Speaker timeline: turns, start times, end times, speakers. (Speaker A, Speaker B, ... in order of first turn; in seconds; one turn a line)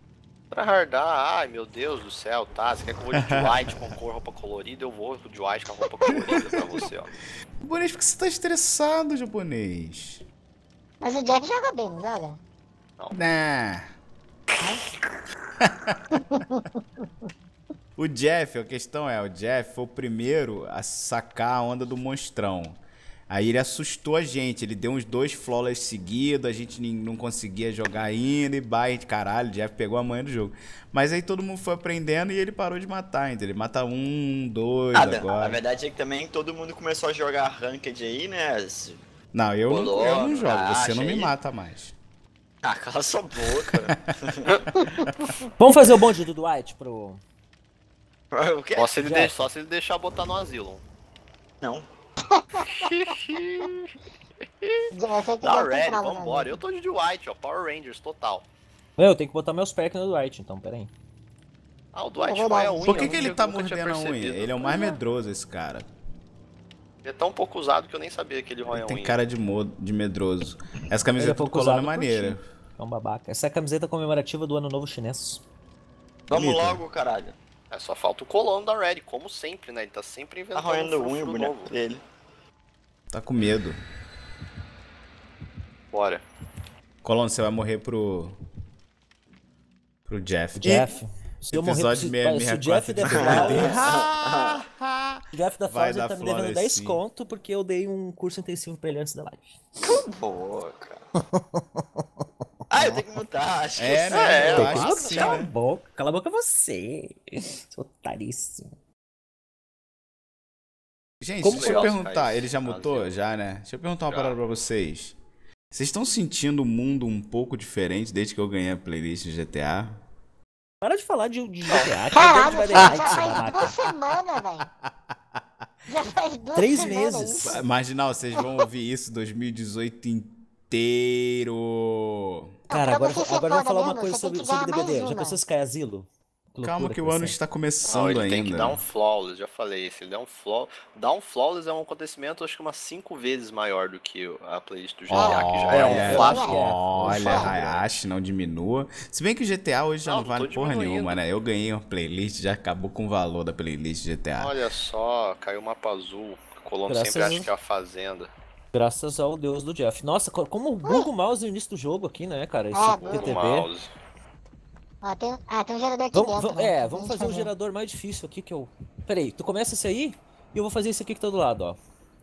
Speaker A: 0.5-7.1
Speaker B: 3.1-3.6
Speaker B: 6.2-6.6
Speaker B: 7.6-10.2
Speaker C: 11.0-12.4
Speaker B: 13.1-13.8
Speaker B: 15.6-16.0
Speaker C: 16.3-16.6
Speaker B: 18.0-22.8
Speaker B: 23.3-35.6
Speaker D: 34.9-39.0
Speaker B: 39.3-42.0
Speaker D: 39.7-41.3
Speaker A: 39.7-40.5
Speaker D: 42.6-44.5
Speaker C: 44.8-45.1
Speaker E: 45.6-47.2
Speaker D: 48.3-49.0
Speaker A: 48.8-50.8
Speaker E: 49.0-49.4
Speaker D: 51.6-51.9
Speaker C: 52.3-52.9
Speaker A: 52.7-53.9
Speaker C: 54.9-56.6
Speaker A: 55.4-58.5
Speaker E: 59.0-60.9
Speaker A: 61.9-65.0
Speaker C: 62.2-63.2
Speaker B: 62.8-65.9
Speaker A: 67.0-69.2
Speaker B: 68.7-72.4
Speaker E: 71.2-75.4
Speaker D: 76.3-77.4
Speaker B: 76.3-76.8
Speaker A: 77.7-81.7
Speaker D: 80.5-82.0
Speaker B: 83.1-83.8
Speaker A: 85.9-86.2
Speaker B: 87.0-88.4
Speaker B: 90.1-90.9
Speaker E: 90.6-93.8
Speaker B: 91.5-97.0
Speaker D: 93.1-94.6
Speaker E: 95.3-100.0
Speaker D: 99.8-101.0
Speaker E: 101.4-101.6
Speaker D: 102.7-105.5
Speaker B: 103.8-105.5
Speaker A: 104.1-104.8
Speaker E: 104.5-108.7
Speaker B: 111.2-115.2
Speaker E: 111.4-111.9
Speaker A: 111.5-113.1
Speaker A: 114.1-114.4
Speaker B: 115.7-120.0
Speaker E: 120.8-123.8
Speaker C: 122.1-124.7
Speaker B: 122.8-123.7
Speaker C: 125.9-127.6
Speaker E: 126.5-127.6
Speaker B: 127.4-132.5
Speaker C: 132.7-135.4
Speaker E: 132.7-137.4
Speaker B: 136.6-138.8
Speaker A: 137.9-147.9
Speaker B: 145.1-154.6
Speaker C: 145.1-145.4
Speaker E: 145.7-147.4
Speaker C: 146.1-147.5
Speaker A: 150.1-151.2
Speaker A: 154.4-158.3
Speaker E: 156.9-157.5
Speaker E: 158.7-163.7
Speaker C: 160.8-161.1
Speaker C: 162.7-163.4
Speaker A: 162.9-163.9
Speaker C: 165.0-167.5
Speaker E: 166.1-171.8